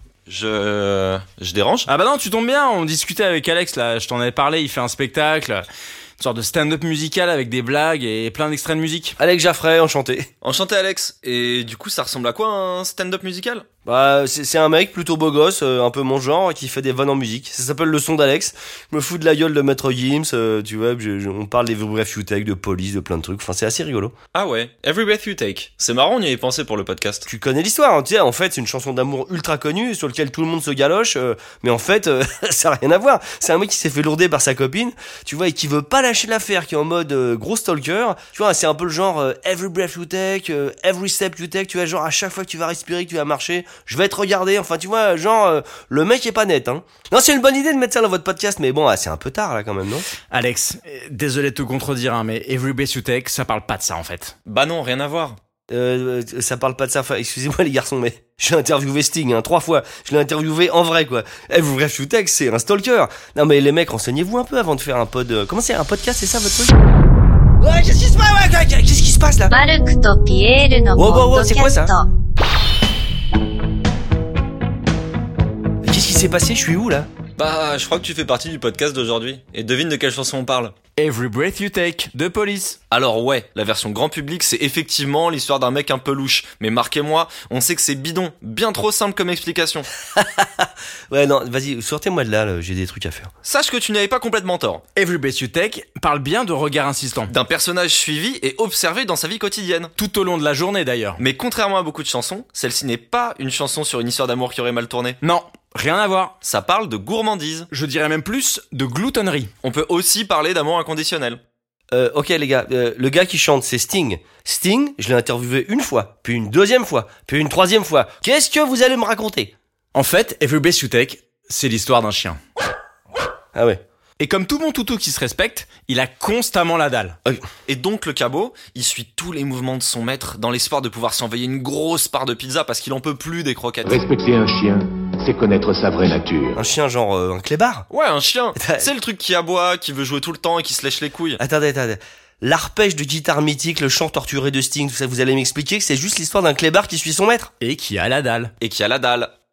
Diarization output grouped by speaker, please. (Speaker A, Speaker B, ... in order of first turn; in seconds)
Speaker A: 0.3-1.9, 10.4-13.6, 24.3-27.3, 54.5-55.4, 77.4-80.7, 82.9-89.9, 93.4-94.8, 97.3-99.9, 101.2-105.2, 106.4-107.7, 109.6-111.4, 127.7-134.1, 137.9-141.4, 148.6-149.3
Speaker B: 1.9-5.6, 6.2-9.2, 50.3-54.3, 81.0-82.8, 94.9-97.3, 100.0-101.2, 105.2-106.3, 107.7-109.5, 119.9-122.4, 124.2-127.2, 147.6-148.5
Speaker C: 9.2-10.3, 13.8-24.1, 27.3-50.0, 55.7-66.7, 67.6-69.5, 71.0-71.9, 75.8-77.1, 90.2-93.3, 111.9-119.5, 136.5-137.9, 138.5-138.9, 141.4-147.5
Speaker D: 69.5-72.0
Speaker E: 133.8-136.6